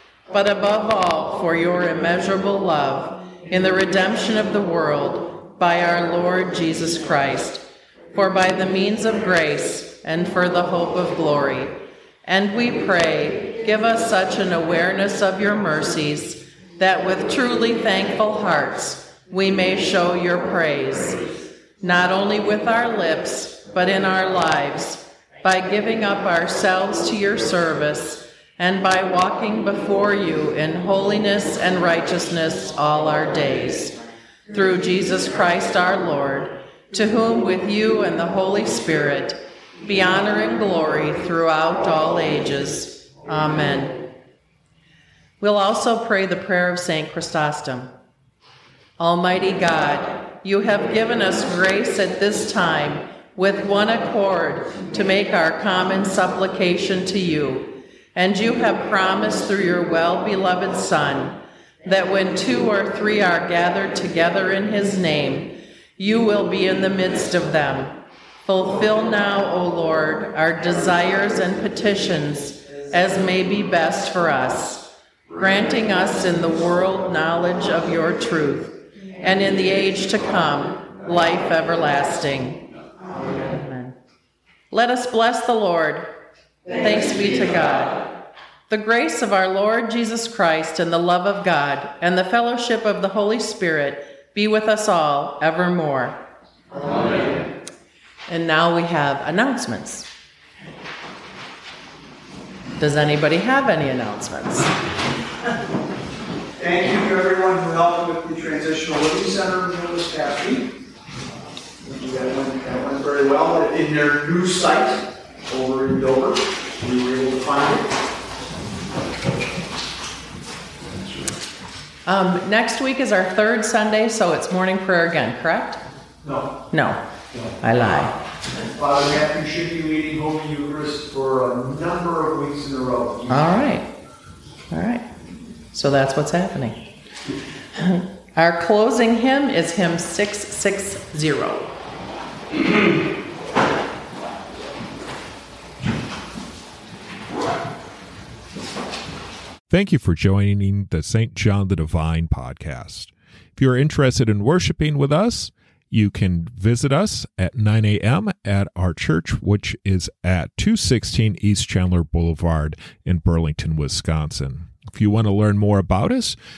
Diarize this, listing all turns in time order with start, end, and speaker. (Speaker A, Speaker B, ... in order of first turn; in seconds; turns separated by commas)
Speaker A: 0.3-34.0, Speaker A: 34.5-44.1, Speaker A: 45.4-47.9, Speaker A: 49.0-82.7, Speaker A: 83.3-84.0, Speaker A: 84.7-86.1, Speaker A: 86.7-88.1, Speaker A: 88.7-96.3, Speaker A: 98.3-100.1, Speaker A: 102.8-104.8, Speaker B: 106.6-110.7, Speaker B: 111.8-117.9, Speaker A: 122.0-125.8, Speaker B: 126.2-126.5, Speaker A: 126.7-127.0, Speaker B: 127.3-127.6, Speaker A: 127.6-128.1, Speaker B: 128.6-133.5, Speaker A: 133.3-133.9, Speaker A: 134.7-135.0, Speaker A: 135.7-136.8, Speaker A: 137.7-141.7, Speaker C: 149.7-166.3